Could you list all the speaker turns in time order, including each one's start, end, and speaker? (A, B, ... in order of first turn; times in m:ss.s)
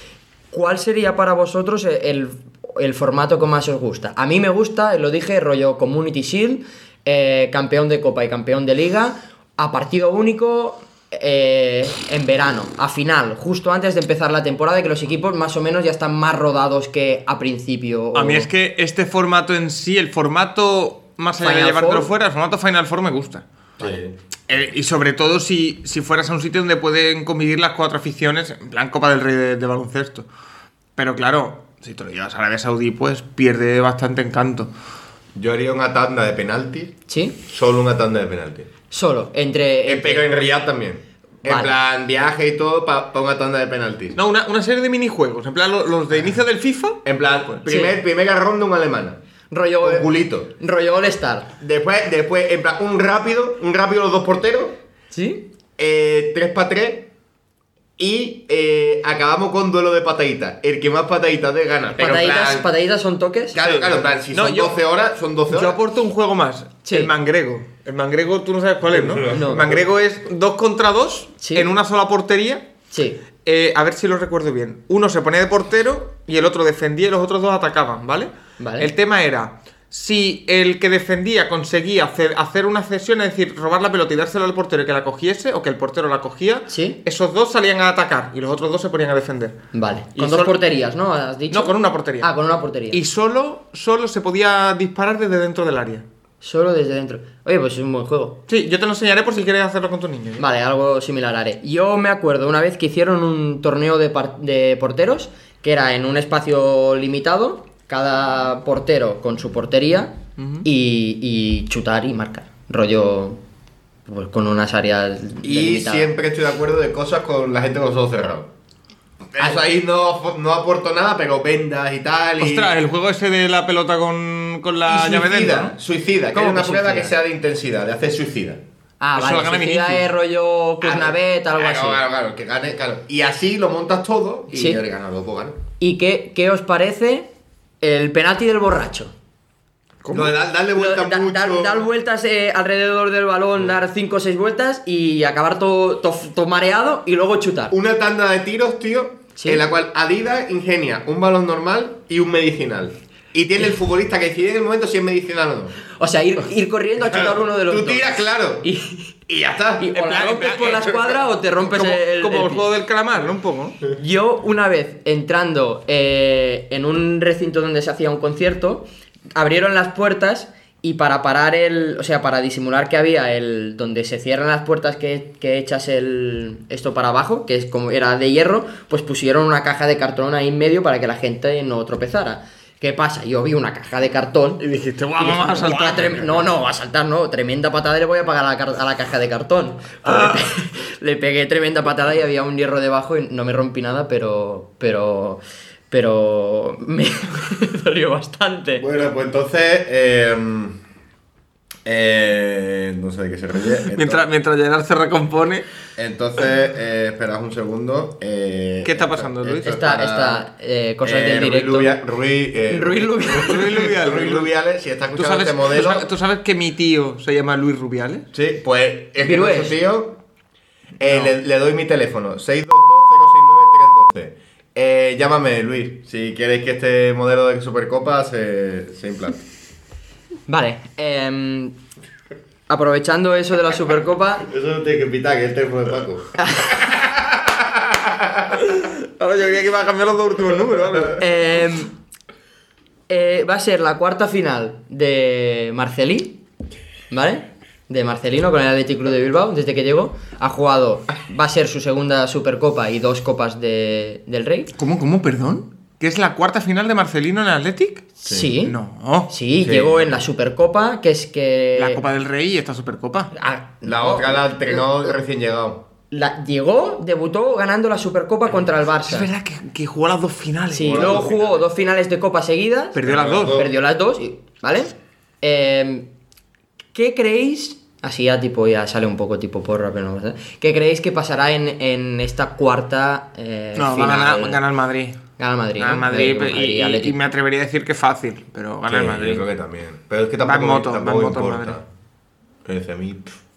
0:00.5-0:18.5 A
0:18.1-0:23.4 B
0:21.4-0:22.1 A
0:23.8-0:24.2 C
0:24.5-0:30.3 B
0:31.0-0:34.7 B
0:35.3-0:38.7 C
0:37.1-0:37.4 A
0:38.9-0:40.3 A
0:39.8-0:44.2 C
0:41.4-0:41.7 A
0:44.1-0:47.7 B
0:47.0-0:49.2 C
0:47.7-0:48.0 A
0:49.5-0:51.5 A
0:49.8-0:50.5 C
0:51.6-0:54.8 C
0:55.1-0:55.5 A
0:55.8-0:57.1 C
0:58.0-1:02.7 C
1:02.0-1:03.6 A
1:03.5-1:05.8 C
1:03.6-1:04.8 B
1:05.5-1:12.7 B
1:06.8-1:07.1 A
1:08.9-1:09.8 C
1:09.3-1:09.6 A
1:11.4-1:11.7 A
1:12.9-1:13.2 A
1:13.4-1:29.6 B
1:18.6-1:18.9 A
1:26.7-1:27.0 A
1:29.7-1:33.0 A
1:30.2-1:30.6 B
1:31.5-1:32.3 B
1:32.9-1:36.0 B
1:36.4-1:38.4 A
1:38.5-1:40.4 B
1:40.4-1:53.4 A
1:50.4-1:50.6 B
1:54.1-1:56.1 A
1:55.4-1:58.5 C
1:59.3-2:02.7 C
2:02.4-2:05.7 B
2:04.9-2:08.6 C
2:06.3-2:07.1 A
2:09.0-2:12.0 A
2:09.2-2:10.0 B
2:10.8-2:15.6 C
2:14.5-2:14.8 A
2:15.8-2:19.1 A
2:20.0-2:20.3 B
2:20.1-2:21.8 C
2:20.7-2:27.7 A
2:27.7-2:35.8 C
2:29.4-2:29.6 A
2:35.9-2:38.1 A
2:37.1-2:38.7 C
2:38.6-2:39.1 A
2:39.3-2:40.0 C
2:39.8-2:42.6 A
2:39.9-2:41.0 B
2:41.7-2:43.8 B
2:43.9-3:04.6 A
3:04.6-3:06.4 B
3:05.2-3:18.8 A
3:10.1-3:10.4 B
3:18.8-3:20.8 C
3:21.8-3:24.2 C
3:23.9-3:25.7 B
3:26.0-3:30.5 C
3:28.8-3:29.7 B
3:29.6-3:32.0 A
3:31.0-3:36.1 C
3:32.7-3:33.8 A
3:33.3-3:34.5 B
3:35.2-3:38.3 B
3:38.3-3:40.2 C
3:39.2-3:39.8 A
3:41.0-3:49.4 C
3:41.0-3:41.3 B
3:50.5-3:51.8 A
3:52.7-3:54.5 A
3:54.4-3:58.6 C
3:56.4-3:56.7 A
3:58.6-4:01.2 B
4:01.1-4:01.9 A
4:03.1-4:06.4 A
4:07.1-4:14.7 A
4:14.7-4:19.3 B
4:18.2-4:18.7 A
4:18.3-4:18.5 C
4:19.3-4:22.0 A
4:19.6-4:20.2 C
4:21.8-4:23.3 B
4:23.3-4:24.8 A
4:23.8-4:25.8 C
4:26.1-4:29.3 A
4:29.0-4:31.3 B
4:30.7-4:36.1 A
4:30.8-4:31.6 C
4:32.9-4:33.6 B
4:33.0-4:33.7 C
4:36.9-4:44.6 A
4:43.8-4:45.2 B
4:45.4-4:47.1 A
4:45.8-4:49.4 B
4:48.9-4:51.8 C
4:50.4-4:51.8 B
4:52.6-4:53.3 C